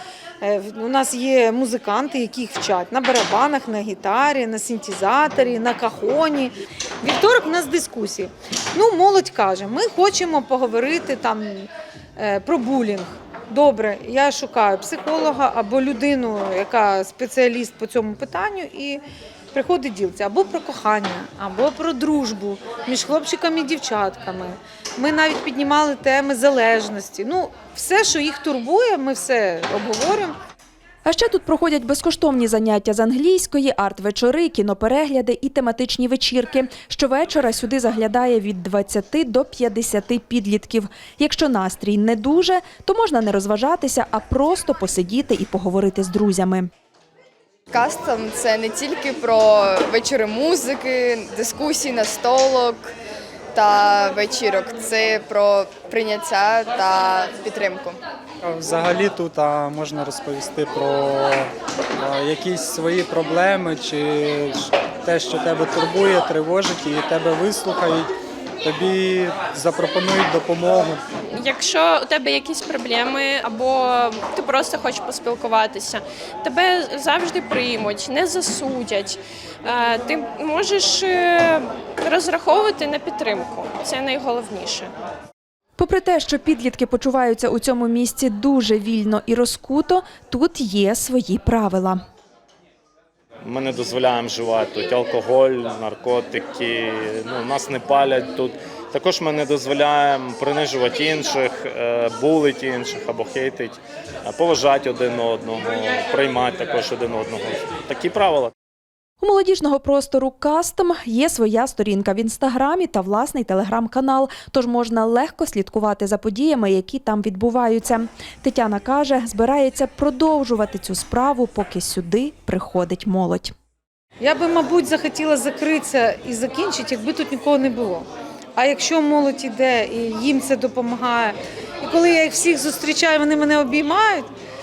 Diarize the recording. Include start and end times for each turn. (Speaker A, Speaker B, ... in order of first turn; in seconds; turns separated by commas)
Speaker A: 0.4-30.4, Speaker B: 31.1-46.7, Speaker C: 47.7-52.9, Speaker C: 53.5-58.0, Speaker D: 58.6-61.5, Speaker D: 62.0-68.1, Speaker D: 68.6-71.0, Speaker E: 71.3-84.9, Speaker B: 85.8-92.0, Speaker F: 93.4-108.5, Speaker B: 109.2-123.5, Speaker A: 124.2-134.3